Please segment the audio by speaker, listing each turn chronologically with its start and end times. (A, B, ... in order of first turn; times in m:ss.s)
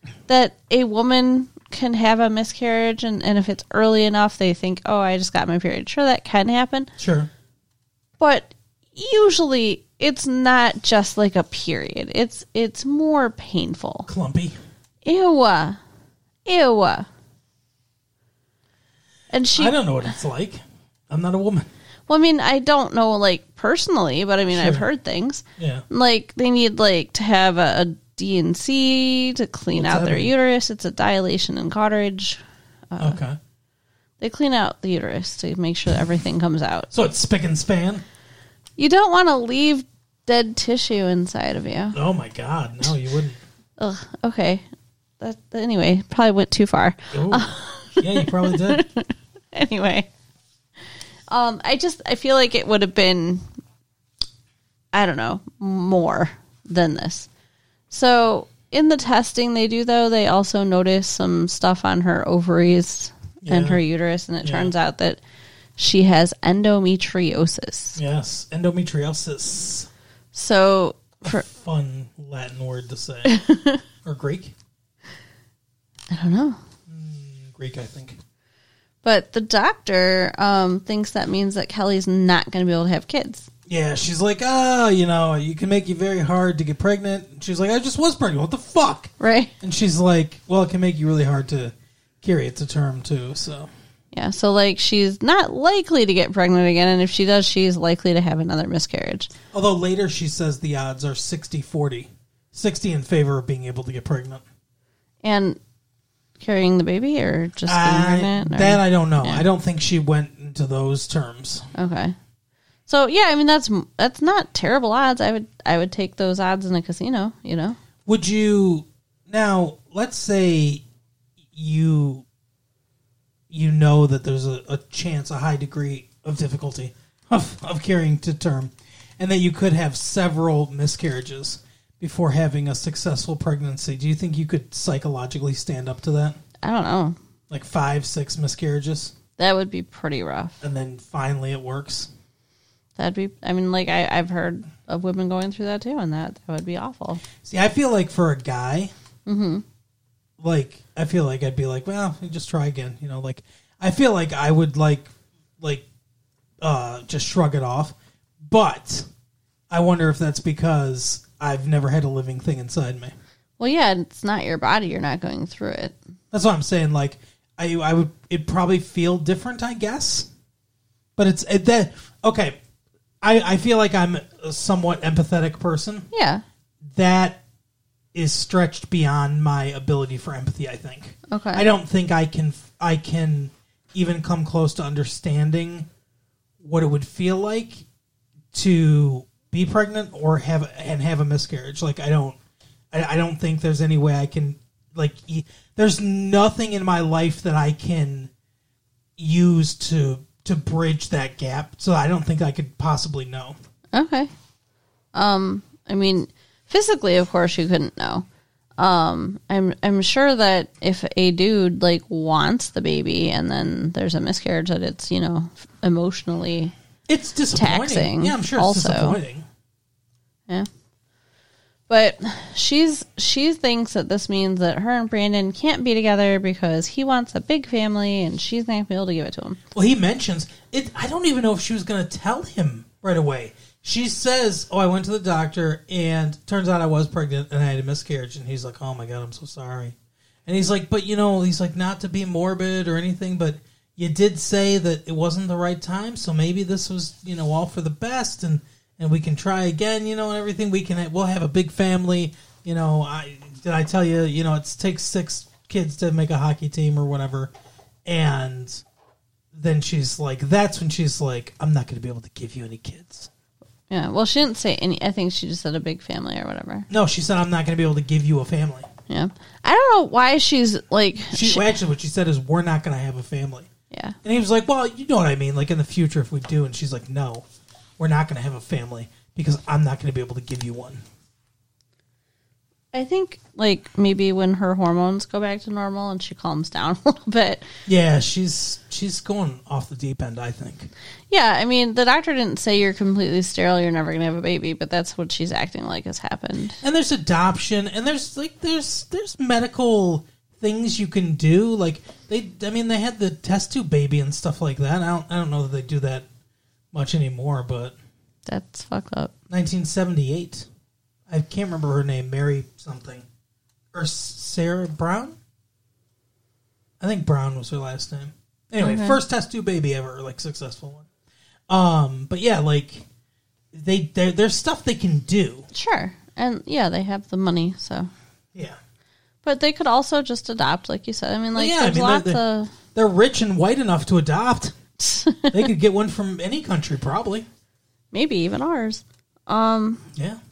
0:00.3-0:06.9 A
0:07.0-0:07.3 B
0:08.2-0:14.1 A
0:14.0-0:14.6 B
0:15.0-0:15.8 A
0:16.4-0:17.1 A
0:19.3-0:19.8 A
0:19.6-0:21.7 B
0:22.1-0:32.4 A
0:24.5-0:24.8 B
0:25.6-0:25.8 B
0:29.7-0:30.3 B
0:32.9-0:33.2 A
0:33.0-0:33.4 B
0:34.2-0:36.9 A
0:36.9-0:38.0 B
0:38.8-0:42.0 A
0:41.9-0:43.4 B
0:43.8-0:44.6 A
0:45.2-0:50.1 A
0:47.1-0:48.8 B
0:51.3-0:53.4 A
0:54.9-0:57.3 A
0:57.9-1:05.2 A
1:03.4-1:03.8 B
1:04.4-1:04.7 B
1:05.8-1:08.0 A
1:08.0-1:09.9 B
1:10.3-1:11.4 A
1:11.2-1:13.3 B
1:13.2-1:13.8 A
1:14.0-1:14.5 B
1:16.1-1:16.6 A
1:16.9-1:18.2 B
1:19.0-1:23.5 A
1:23.7-1:33.7 B
1:29.2-1:29.5 A
1:34.1-1:39.3 A
1:39.5-1:44.4 B
1:45.2-1:45.6 A
1:46.4-1:49.4 A
1:47.7-1:51.7 B
1:51.7-1:52.2 A
1:52.9-1:57.8 A
1:58.0-2:00.8 B
2:01.5-2:02.2 B
2:03.5-2:16.4 B
2:16.6-2:17.2 A
2:17.5-2:19.1 B
2:19.4-2:20.6 A
2:20.6-2:22.1 B
2:23.0-2:27.2 A
2:27.4-2:28.9 B
2:29.2-2:29.6 A
2:30.4-2:35.8 B
2:36.6-2:39.0 B
2:39.7-2:43.1 B
2:43.6-2:46.0 A
2:46.3-2:50.3 B
2:51.2-2:52.6 B
2:53.2-2:56.1 B
2:56.1-2:56.4 A
2:56.9-2:57.4 B
2:58.1-3:05.9 B
3:01.3-3:01.7 A
3:06.6-3:07.8 B
3:08.5-3:12.4 B
3:12.9-3:18.3 B
3:19.2-3:23.6 B
3:23.9-3:24.3 A
3:25.1-3:28.2 A
3:28.8-3:36.7 A
3:37.1-3:39.4 B
3:37.5-3:39.2 A
3:41.9-3:49.6 A
3:49.7-4:17.5 B
4:18.0-4:18.8 B
4:19.5-4:23.3 B
4:23.9-4:26.9 A
4:26.9-4:28.9 B
4:29.1-4:31.7 A
4:31.3-4:33.7 B
4:33.9-4:34.2 A
4:34.2-4:37.4 B
4:38.0-4:41.0 B
4:42.9-4:47.6 A
4:47.8-4:50.9 B
4:51.3-4:56.8 A
4:56.8-5:06.2 B
5:06.9-5:07.9 B
5:08.5-5:09.3 A
5:09.5-5:10.7 B
5:11.3-5:13.2 B
5:13.9-5:15.4 B
5:17.0-5:21.1 B
5:18.8-5:19.2 A
5:21.7-5:23.1 B
5:23.7-5:25.6 B
5:25.7-5:28.1 A
5:29.4-5:32.7 A
5:31.6-5:32.4 B
5:32.9-5:34.7 B
5:35.0-5:35.7 A
5:35.5-5:37.4 B
5:38.1-5:40.0 A
5:40.1-5:40.4 B